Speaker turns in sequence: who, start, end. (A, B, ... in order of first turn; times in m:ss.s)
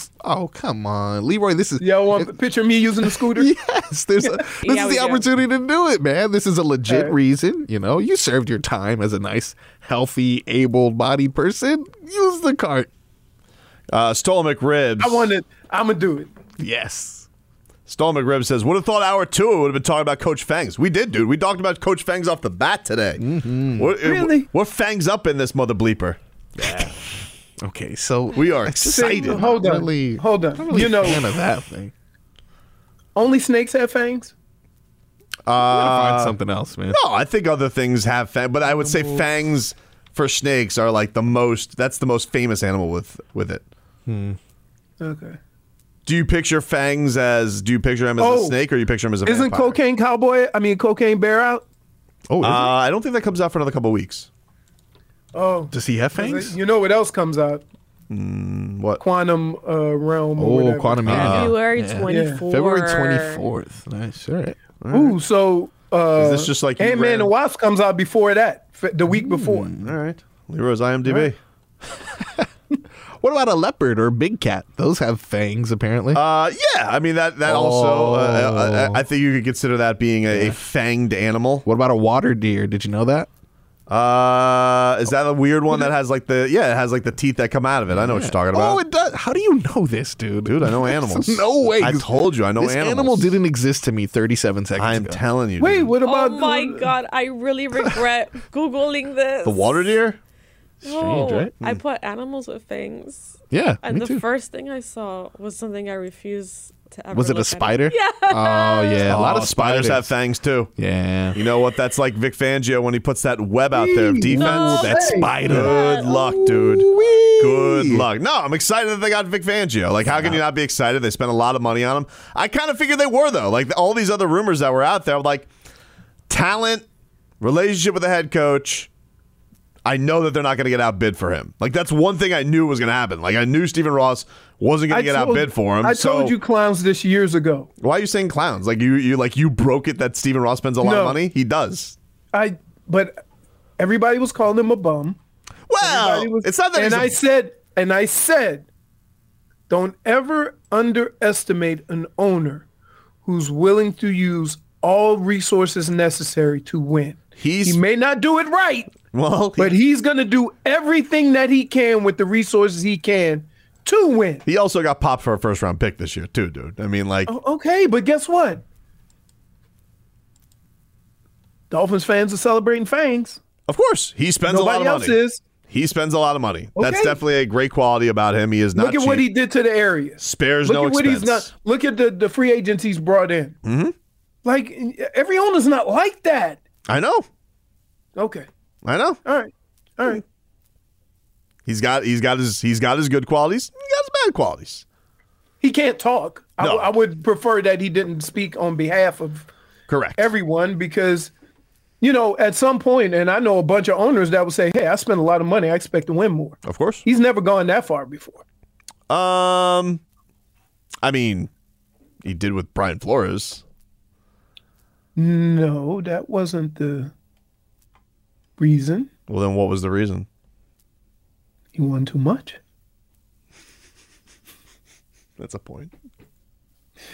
0:00.2-0:02.3 A
0:01.8-0:03.5 B
0:03.0-0:12.9 A
0:04.6-0:05.3 C
0:06.9-0:07.2 B
0:13.9-0:15.3 D
0:15.0-0:16.3 B
0:16.6-0:17.2 A
0:17.9-0:23.2 D
0:23.2-0:23.9 A
0:23.7-0:26.2 D
0:24.0-0:24.5 B
0:26.6-0:31.9 A
0:28.3-0:29.5 D
0:28.9-0:31.3 B
0:33.1-0:34.3 B
0:35.4-0:36.4 D
0:35.5-0:37.0 A
0:36.9-0:43.6 D
0:38.7-0:39.2 B
0:44.0-0:44.4 A
0:45.0-0:45.4 B
0:46.0-0:49.8 D
0:48.2-0:48.6 B
0:49.2-0:51.6 B
0:52.3-0:52.7 A
0:52.4-0:54.3 D
0:55.3-0:57.6 B
0:55.7-0:56.6 A
0:58.1-0:59.0 D
0:59.0-1:01.3 B
1:00.4-1:04.6 A
1:01.1-1:01.5 D
1:01.1-1:03.4 C
1:02.1-1:02.4 B
1:04.8-1:05.2 D
1:04.9-1:09.7 B
1:06.1-1:07.3 D
1:09.1-1:09.9 A
1:09.8-1:11.4 D
1:13.2-1:16.2 A
1:16.1-1:21.6 D
1:17.4-1:19.0 A
1:20.3-1:20.6 A
1:21.6-1:23.3 A
1:23.9-1:28.8 D
1:27.9-1:35.2 A
1:30.4-1:33.4 D
1:34.8-1:35.9 D
1:35.6-1:36.9 B
1:36.0-1:39.9 C
1:39.4-1:40.2 D
1:40.8-1:49.2 C
1:40.8-1:41.6 A
1:43.5-1:44.2 A
1:47.1-1:50.1 A
1:49.0-1:50.7 D
1:50.8-1:51.4 A
1:51.3-1:56.9 D
1:53.7-1:55.3 B
1:54.4-1:58.0 A
1:54.4-1:56.1 C
1:57.4-2:05.5 D
2:00.1-2:00.4 A
2:06.3-2:06.8 D
2:07.4-2:08.9 D
2:09.8-2:16.3 D
2:14.9-2:17.7 B
2:17.8-2:22.0 D
2:20.8-2:21.2 B
2:22.3-2:23.2 B
2:23.8-2:25.2 B
2:25.7-2:27.1 D
2:25.8-2:28.7 B
2:29.7-2:32.7 B
2:33.2-2:38.9 B
2:37.4-2:37.8 D
2:39.1-2:39.8 D
2:39.6-2:44.4 B
2:44.4-2:47.3 D
2:47.3-2:48.6 B
2:51.7-2:53.4 B
2:53.7-2:59.2 D
2:54.5-2:55.4 B
2:56.8-2:57.2 B
2:58.7-3:03.6 B
3:00.2-3:01.5 D
3:03.6-3:03.9 D
3:04.4-3:06.6 B
3:06.9-3:07.2 D
3:08.2-3:08.5 B
3:08.8-3:09.2 D
3:09.2-3:10.2 B
3:11.6-3:14.8 D
3:15.6-3:19.5 B
3:16.6-3:16.9 D
3:19.9-3:20.3 D
3:20.2-3:21.3 B
3:22.0-3:28.4 B
3:26.6-3:27.0 D
3:29.1-3:30.0 D
3:31.0-3:31.5 D
3:32.2-3:33.6 D
3:35.1-3:37.1 B
3:38.6-3:39.1 B
3:39.3-3:40.3 D
3:41.7-3:42.6 B
3:45.4-3:45.9 D